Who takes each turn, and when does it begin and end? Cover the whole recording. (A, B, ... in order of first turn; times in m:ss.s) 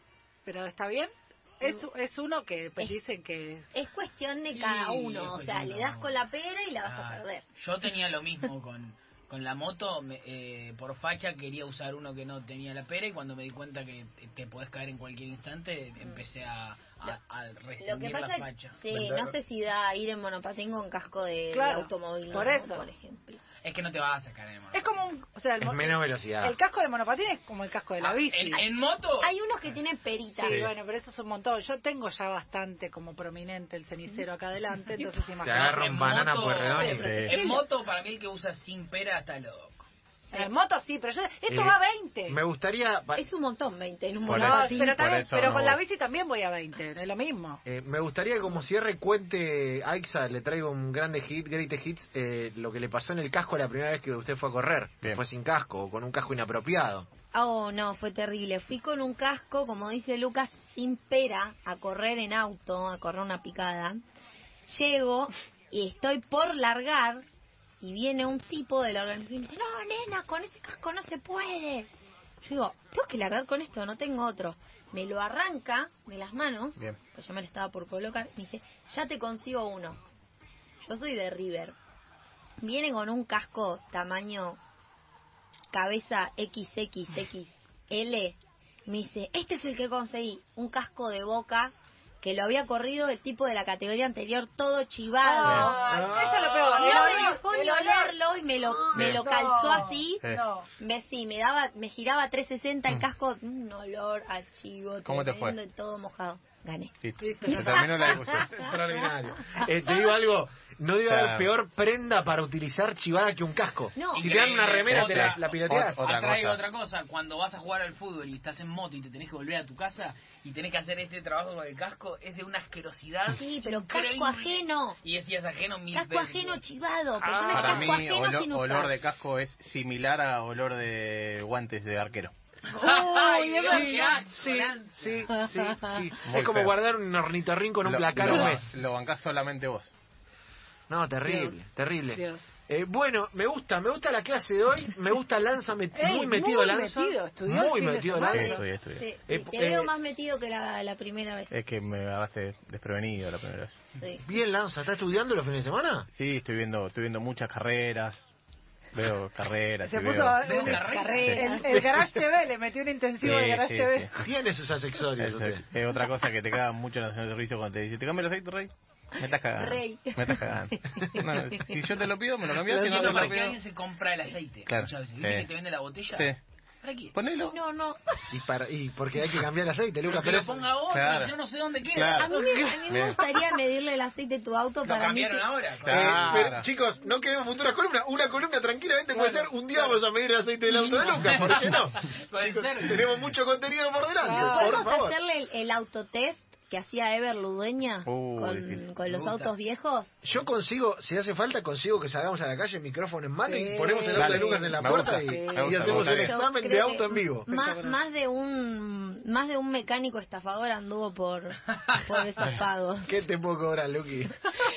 0:00.4-0:03.7 A
0:03.7-0:07.4 B
0:04.5-0:06.1 C
0:06.8-0:18.8 C
0:17.8-0:23.4 B
0:18.9-0:19.3 D
0:21.5-0:22.9 A
0:23.6-0:25.1 C
0:24.7-0:28.6 A
0:25.6-0:26.6 E
0:28.0-0:29.3 C
0:29.2-0:30.6 B
0:30.4-0:35.8 A
0:30.4-0:30.7 D
0:35.4-0:37.1 E
0:35.4-0:39.8 C
0:36.7-0:37.7 B
0:36.9-0:37.4 D
0:40.3-0:42.4 A
0:41.5-0:43.2 E
0:43.2-0:45.1 B
0:44.3-0:45.8 D
0:44.3-0:47.6 A
0:47.6-0:57.1 E
0:57.3-1:04.0 B
1:04.7-1:07.2 B
1:07.8-1:11.9 B
1:12.4-1:20.0 B
1:20.8-1:21.8 B
1:22.6-1:24.6 B
1:25.7-1:35.8 B
1:35.2-1:38.1 A
1:35.4-1:35.8 D
1:35.8-1:37.0 E
1:36.5-1:40.2 B
1:38.8-1:40.7 A
1:38.9-1:39.3 D
1:40.2-1:40.4 D
1:40.8-1:46.9 B
1:45.0-1:45.6 D
1:47.0-1:48.6 D
1:47.2-1:48.1 A
1:47.4-1:48.6 B
1:48.3-1:56.0 E
1:51.1-1:51.5 D
1:54.0-1:54.3 B
1:54.1-2:06.6 C
1:54.9-1:56.6 D
2:03.3-2:05.0 B
2:05.9-2:08.9 B
2:07.2-2:07.8 E
2:07.5-2:12.3 D
2:12.7-2:15.3 C
2:12.7-2:14.3 A
2:13.7-2:18.7 E
2:15.3-2:15.8 A
2:16.2-2:16.7 D
2:17.8-2:19.9 D
2:20.9-2:28.6 E
2:21.2-2:21.6 A
2:22.1-2:22.4 A
2:25.9-2:28.6 A
2:28.3-2:29.0 D
2:28.4-2:31.5 B
2:29.3-2:29.9 E
2:31.5-2:33.8 D
2:33.9-2:34.2 B
2:34.2-2:36.1 E
2:36.1-2:38.3 D
2:38.9-2:41.8 D
2:39.8-2:44.1 A
2:40.4-2:41.5 C
2:40.6-2:41.9 B
2:43.2-2:44.1 D
2:44.2-2:45.6 E
2:45.2-2:53.6 D
2:49.2-2:51.8 B
2:52.6-2:53.4 E
2:52.8-2:56.3 C
2:54.7-2:55.5 D
2:56.1-2:56.4 D
2:56.8-2:57.1 C
2:57.1-2:57.6 D
2:57.4-2:58.3 B
2:58.3-3:00.6 E
3:00.0-3:02.3 C
3:00.9-3:01.3 D
3:01.9-3:02.3 D
3:02.1-3:05.4 B
3:02.8-3:03.4 D
3:04.8-3:06.4 C
3:05.8-3:06.6 D
3:05.9-3:15.2 E
3:09.1-3:09.9 A
3:11.0-3:13.1 C
3:14.2-3:14.8 A
3:14.3-3:20.2 B
3:18.0-3:19.5 D
3:20.2-3:27.5 E
3:23.4-3:26.0 A
3:24.1-3:26.4 D
3:25.9-3:33.1 B
3:27.5-3:28.0 A
3:33.0-3:34.5 E